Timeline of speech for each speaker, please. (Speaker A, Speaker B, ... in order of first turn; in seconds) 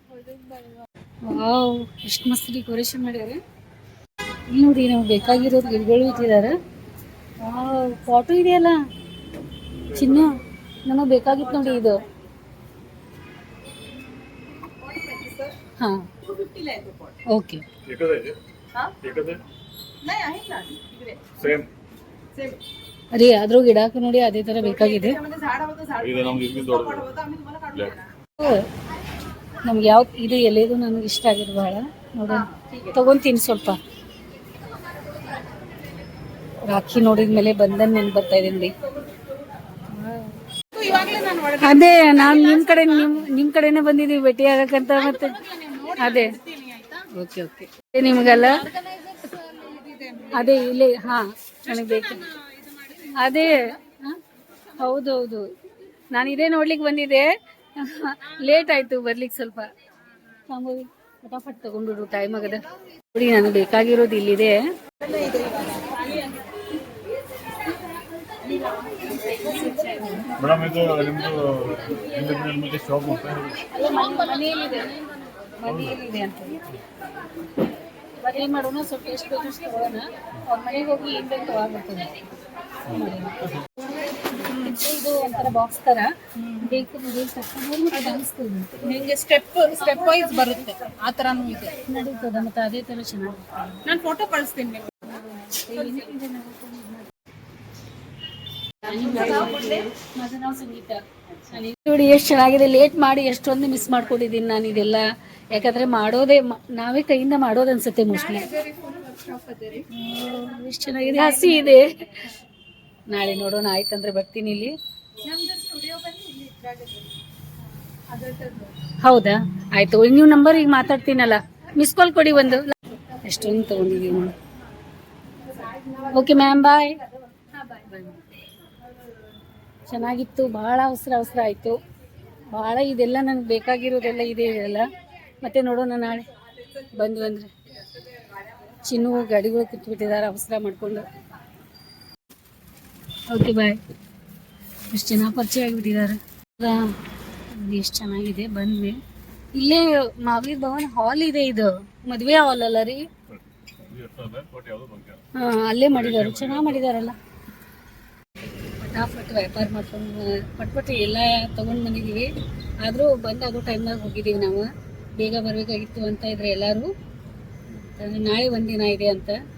Speaker A: 0.2-0.9, 14.9-15.5, 16.3-17.0, 20.0-21.3, 25.4-25.9, 27.2-27.6, 40.7-41.6, 45.4-45.9, 46.5-46.9, 48.9-50.3, 65.0-66.3, 88.8-91.7, 93.8-95.7, 108.6-109.8, 115.2-117.1, 118.1-118.7
Speaker B: 1.2-3.4, 4.5-6.6, 7.4-8.8, 9.9-12.1, 15.8-16.1, 17.3-17.6, 23.1-25.2, 28.4-28.7, 29.6-33.8, 36.7-38.7, 40.0-40.3, 41.5-46.4, 47.1-48.8, 50.3-52.3, 52.9-54.2, 54.8-55.5, 56.1-59.7, 60.5-64.6, 69.5-70.3, 73.7-75.0, 75.6-76.6, 78.2-82.2, 82.9-83.4, 84.4-88.8, 91.8-93.9, 95.5-97.1, 98.8-108.6, 109.9-112.2, 113.1-114.8, 119.0-124.3, 126.0-127.0, 127.6-128.2, 129.9-131.8, 132.5-134.9, 135.4-137.5, 138.8-141.1, 143.3-143.8, 144.9-146.9, 147.5-149.0, 149.6-153.1, 155.3-157.2, 158.8-162.3, 162.8-164.7, 165.2-166.9, 167.7-169.4
Speaker C: 17.9-18.4, 18.9-19.4, 21.3-21.7, 25.9-28.0, 70.3-73.7, 153.3-155.2, 155.9-156.8